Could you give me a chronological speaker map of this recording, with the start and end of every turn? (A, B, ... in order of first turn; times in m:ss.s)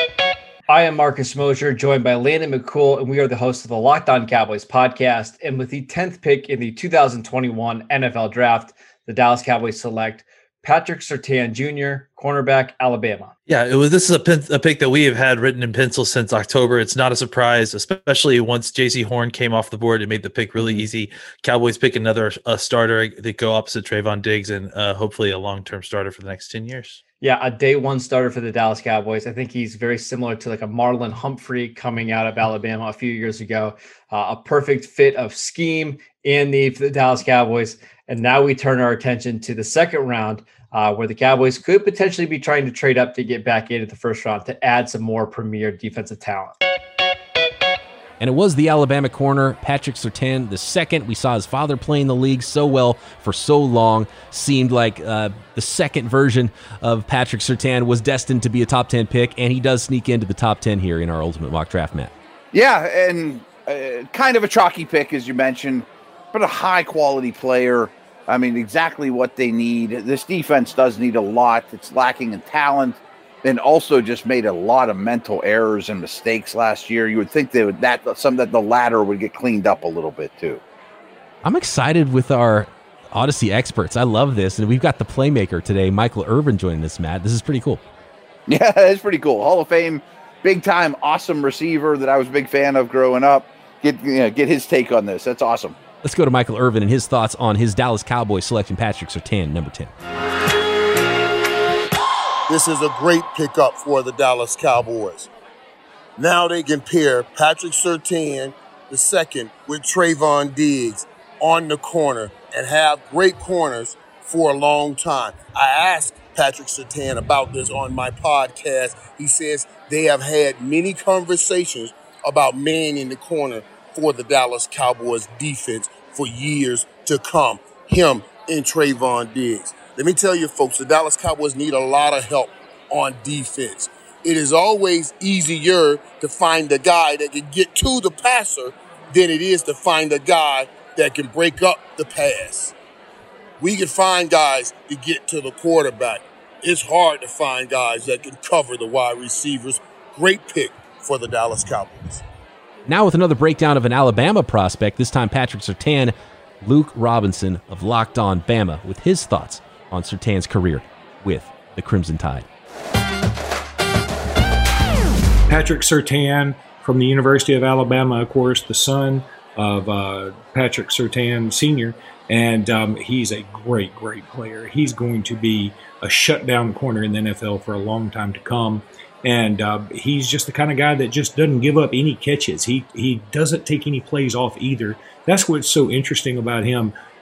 0:00.7-0:13.3 A
0:13.5-0:27.0 B
0:27.2-0:46.5 A
0:48.2-1:02.1 C
1:02.5-1:20.6 D
1:21.4-1:27.8 C
1:28.5-1:35.8 D
1:36.0-1:39.9 C
1:42.5-1:45.3 E
1:46.2-2:22.7 E
2:23.6-2:32.2 E
2:32.9-2:42.5 C
2:45.5-3:06.9 F